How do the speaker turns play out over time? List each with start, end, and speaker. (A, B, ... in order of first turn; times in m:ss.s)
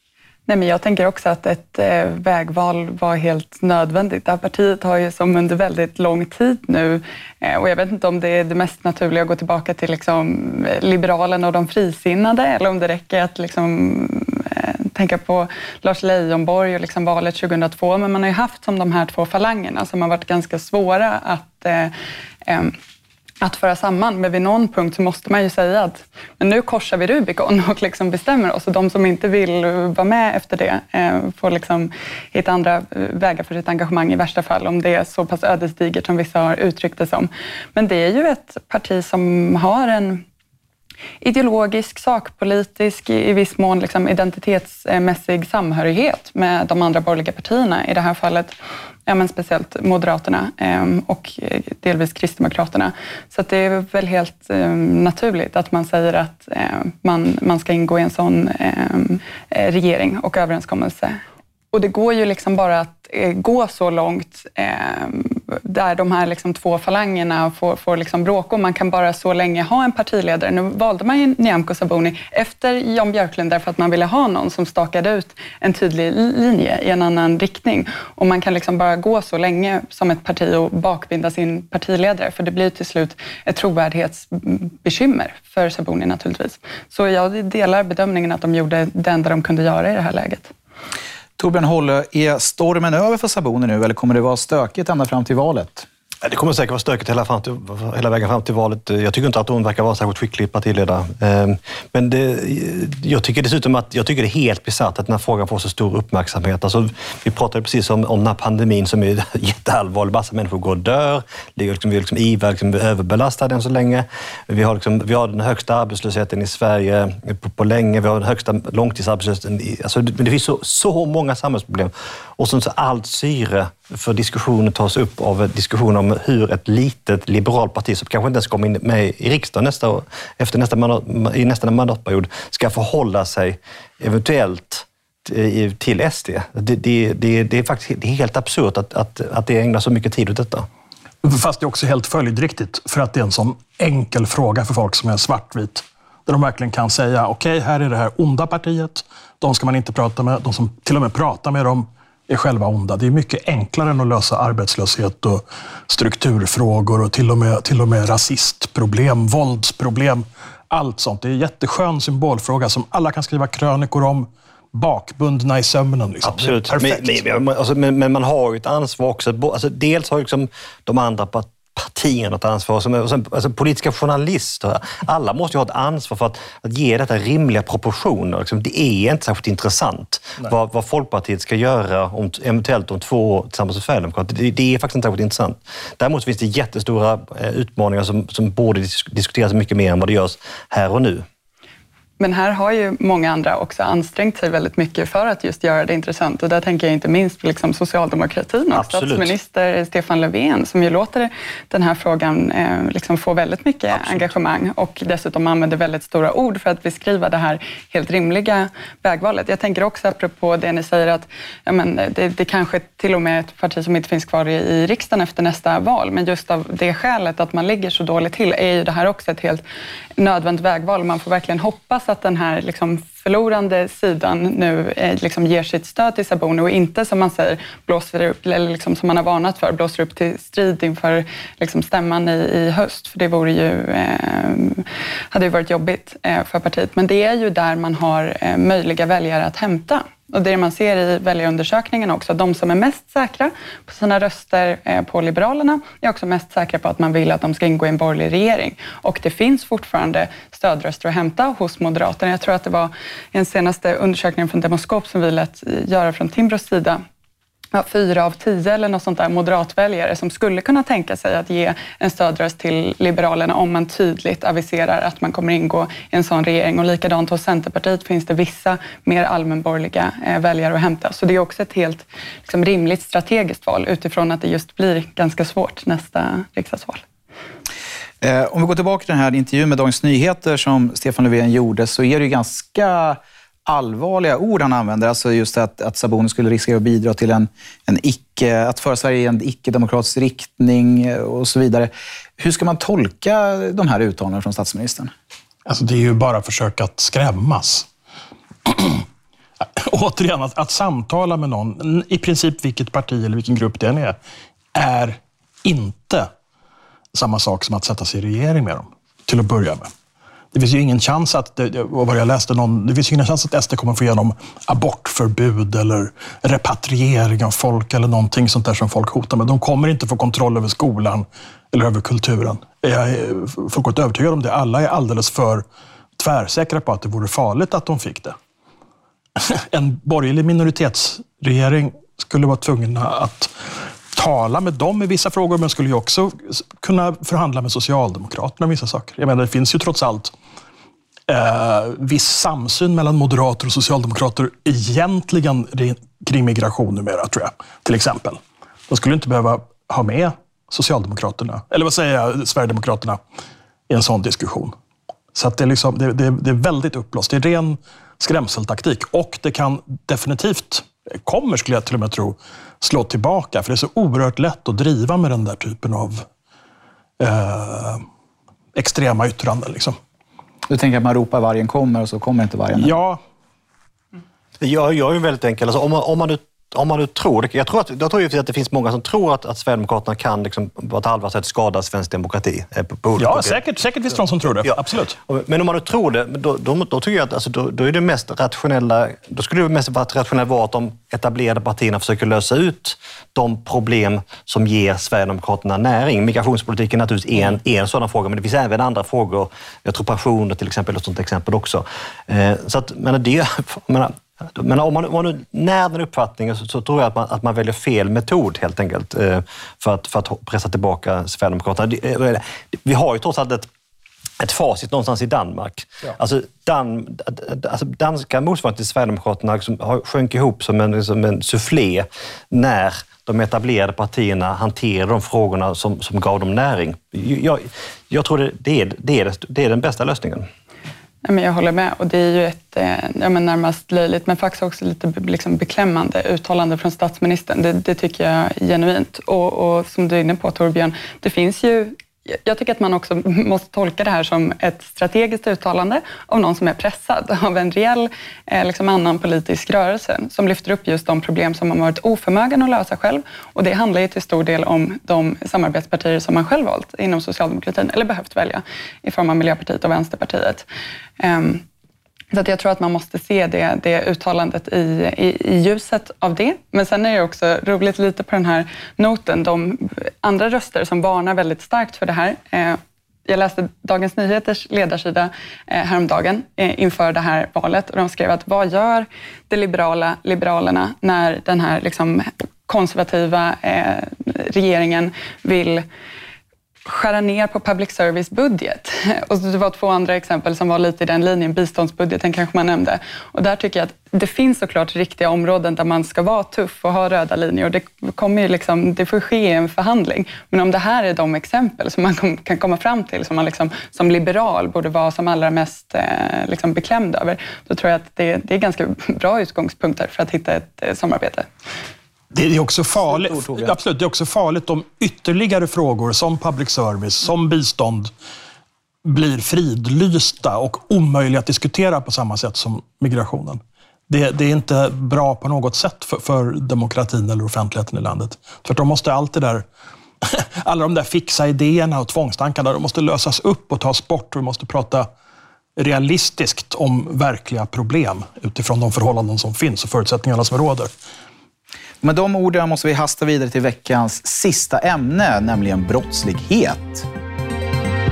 0:00.5-0:21.9 A
0:22.4-0:22.8 A
0:23.4-0:40.2 A
0:41.2-0:48.5 A
0:49.1-1:30.5 A
1:31.4-1:35.8 B
1:36.2-2:20.7 C
2:21.2-2:47.2 D
2:46.2-3:11.2 C
3:12.2-3:39.6 A
3:18.7-3:19.3 C
3:23.9-3:24.3 C
3:40.2-4:17.0 A
4:17.7-4:37.0 A
4:38.2-4:55.1 B
4:55.6-4:57.9 D
4:58.6-4:59.0 D
4:59.6-5:04.2 D
5:04.7-5:06.3 D
5:07.1-5:09.9 D
5:10.5-5:25.6 D
5:26.2-5:28.4 D
5:29.4-5:40.3 D
5:41.3-5:53.2 D
5:53.9-5:54.7 D
5:55.3-6:06.2 D
6:07.2-6:08.0 D
6:08.7-6:10.0 D
6:10.7-6:13.0 B
6:12.8-6:13.2 D
6:14.6-6:23.6 C
6:23.2-6:25.2 D
6:24.6-6:53.7 C
6:54.4-7:10.5 C
7:11.2-7:40.6 A
7:41.2-7:41.6 A
7:42.3-8:05.8 A
8:06.8-8:31.5 A
8:32.3-8:38.1 D
8:33.0-8:33.8 B
8:39.0-8:49.6 D
8:50.2-8:55.1 D
8:55.8-9:00.9 D
9:02.0-9:07.1 B